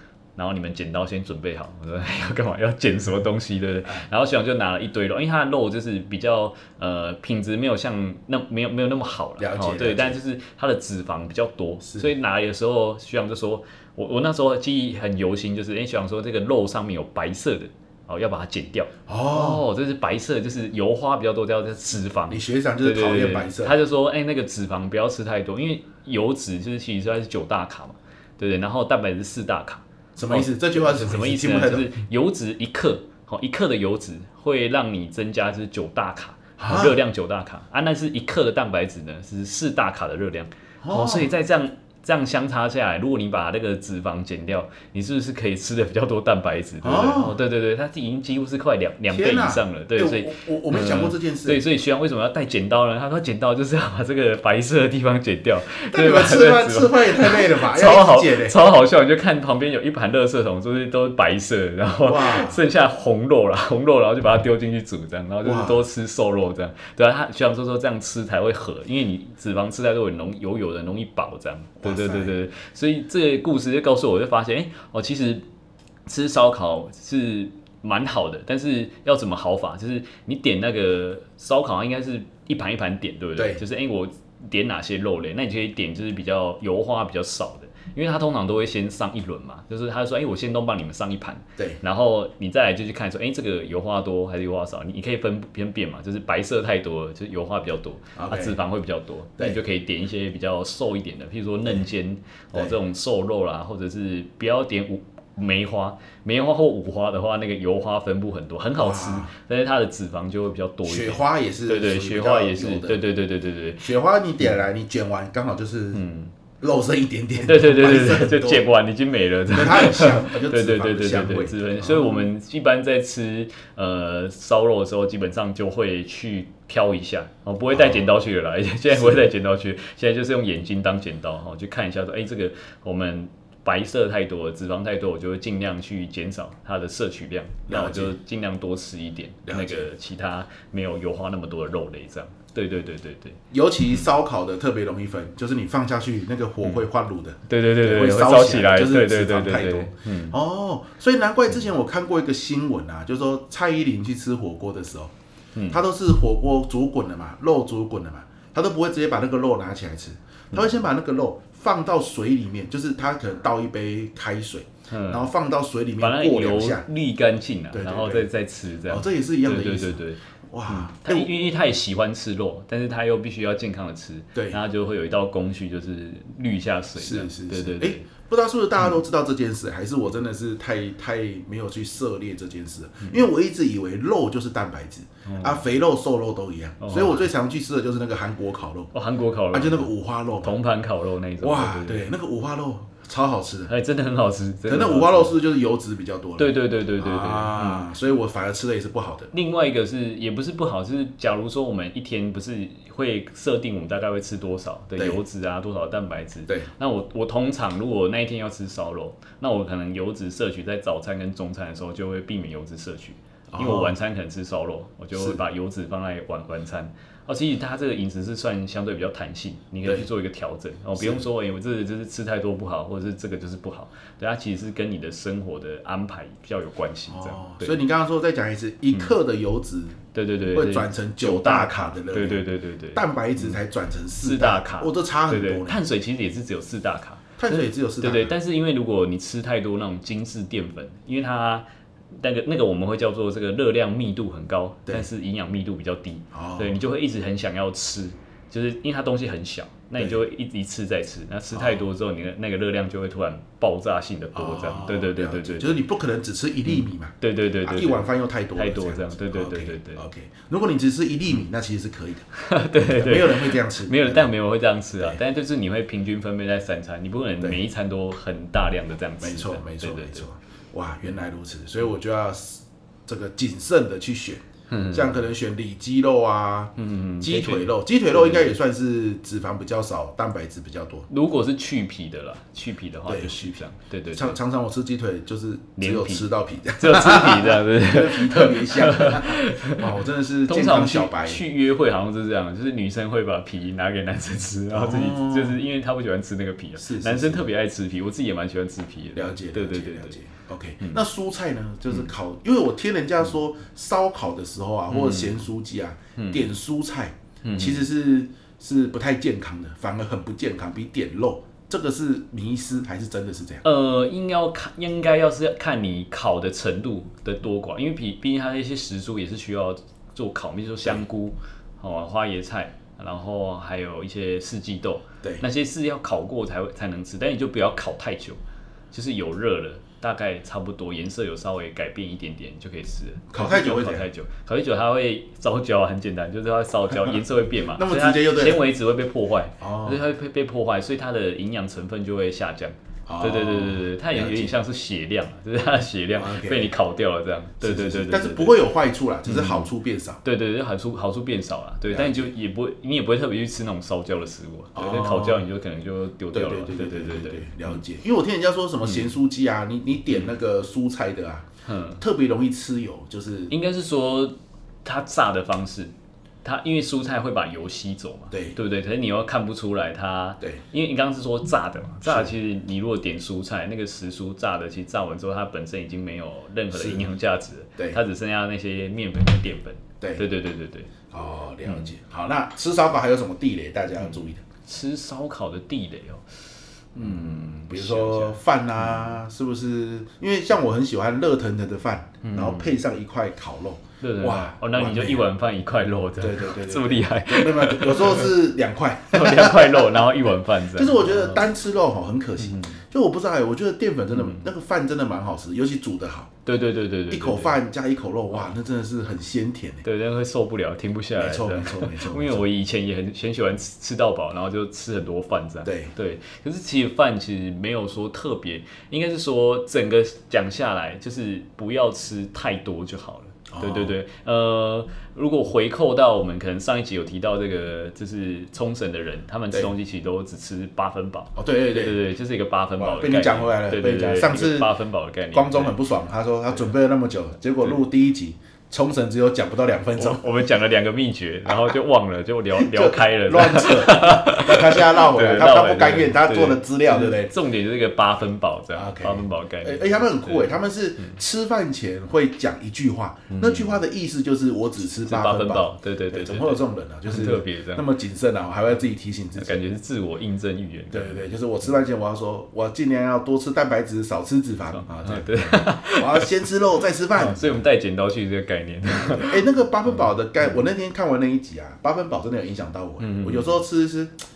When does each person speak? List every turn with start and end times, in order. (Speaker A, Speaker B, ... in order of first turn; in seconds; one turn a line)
Speaker A: 0.3-75.4
Speaker B: 9.4-10.2
Speaker B: 11.8-12.1
Speaker B: 19.1-19.6
Speaker B: 22.3-23.8
Speaker B: 30.1-31.9
Speaker B: 36.6-37.0
Speaker B: 40.8-41.3
Speaker B: 46.8-47.4
Speaker B: 49.1-51.6
Speaker B: 55.9-58.6
Speaker B: 62.0-62.6
Speaker B: 65.4-65.8
Speaker B: 71.8-72.3
Speaker A: 76.0-113.9
Speaker B: 83.3-83.6
Speaker B: 98.2-98.6
Speaker B: 108.8-109.3
Speaker B: 110.8-113.0
Speaker B: 113.8-116.0
Speaker A: 115.9-116.3
Speaker B: 116.6-118.6
Speaker A: 117.4-143.4
Speaker B: 119.5-122.3
Speaker B: 127.7-128.1
Speaker B: 128.9-129.3
Speaker B: 137.7-138.2
Speaker B: 139.4-139.9
Speaker B: 143.5-155.1
Speaker A: 147.5-150.3
Speaker A: 155.5-155.8
Speaker B: 155.7-166.9
Speaker A: 164.9-165.3
Speaker A: 166.0-178.1
Speaker B: 167.7-168.3
Speaker B: 168.9-171.3
Speaker B: 174.3-174.6
Speaker B: 177.0-188.9
Speaker A: 185.2-185.6
Speaker A: 186.8-187.3
Speaker A: 188.9-192.1
Speaker B: 189.5-190.5
Speaker B: 191.4-193.7
Speaker A: 193.7-195.4
Speaker B: 194.6-199.3
Speaker A: 196.4-197.9
Speaker A: 199.3-227.8
Speaker B: 204.9-205.2
Speaker B: 213.5-214.0
Speaker B: 215.1-215.4
Speaker B: 220.9-221.2
Speaker B: 227.1-230.0
Speaker A: 230.1-233.6
Speaker B: 230.5-235.8
Speaker A: 234.2-241.6
Speaker B: 237.4-238.3
Speaker A: 242.2-255.8
Speaker B: 246.3-246.8
Speaker B: 250.0-250.2
Speaker B: 251.5-251.9
Speaker B: 254.3-262.2
Speaker A: 256.6-260.0
Speaker A: 262.4-270.3
Speaker B: 262.8-264.3
Speaker B: 269.2-281.1
Speaker A: 274.7-275.2
Speaker A: 276.8-278.6
Speaker A: 281.1-284.4
Speaker B: 283.1-291.4
Speaker A: 285.8-289.9
Speaker A: 290.5-300.2
Speaker B: 294.7-295.6
Speaker B: 296.8-297.5
Speaker B: 299.1-313.6
Speaker A: 304.9-305.4
Speaker A: 306.2-306.5
Speaker A: 307.4-307.9
Speaker A: 313.6-328.4
Speaker A: 328.9-348.7
Speaker B: 333.3-334.1
Speaker B: 337.7-338.7
Speaker B: 339.6-340.0
Speaker B: 343.1-344.6
Speaker B: 346.1-346.7
Speaker B: 347.6-350.2
Speaker A: 349.2-349.7
Speaker A: 350.2-357.8
Speaker B: 351.9-352.3
Speaker B: 354.7-355.4
Speaker B: 356.3-361.5
Speaker A: 358.8-359.1
Speaker A: 361.6-362.0
Speaker B: 362.0-363.5
Speaker A: 363.5-365.9
Speaker A: 366.4-380.9
Speaker B: 368.3-368.6
Speaker B: 372.0-372.3
Speaker B: 376.7-377.1
Speaker B: 381.1-384.4
Speaker A: 384.0-389.1
Speaker B: 386.9-395.3
Speaker A: 392.2-392.7
Speaker A: 394.0-398.3
Speaker B: 396.2-400.1
Speaker A: 399.1-401.4
Speaker B: 400.7-406.3
Speaker A: 402.4-402.8
Speaker A: 404.1-404.4
Speaker A: 406.4-407.6
Speaker B: 407.1-409.8
Speaker A: 409.8-435.8
Speaker B: 411.1-412.4
Speaker B: 415.6-415.9
Speaker B: 423.5-423.9
Speaker B: 431.4-432.0
Speaker B: 432.8-434.7
Speaker B: 435.3-440.3
Speaker A: 439.9-451.2
Speaker B: 441.5-441.8
Speaker B: 442.5-447.3
Speaker B: 448.7-459.6
Speaker A: 453.3-453.8
Speaker A: 455.1-457.9
Speaker A: 459.4-461.3
Speaker B: 460.9-467.6
Speaker A: 464.7-466.4
Speaker A: 467.1-470.6
Speaker B: 469.0-474.2
Speaker A: 473.0-473.6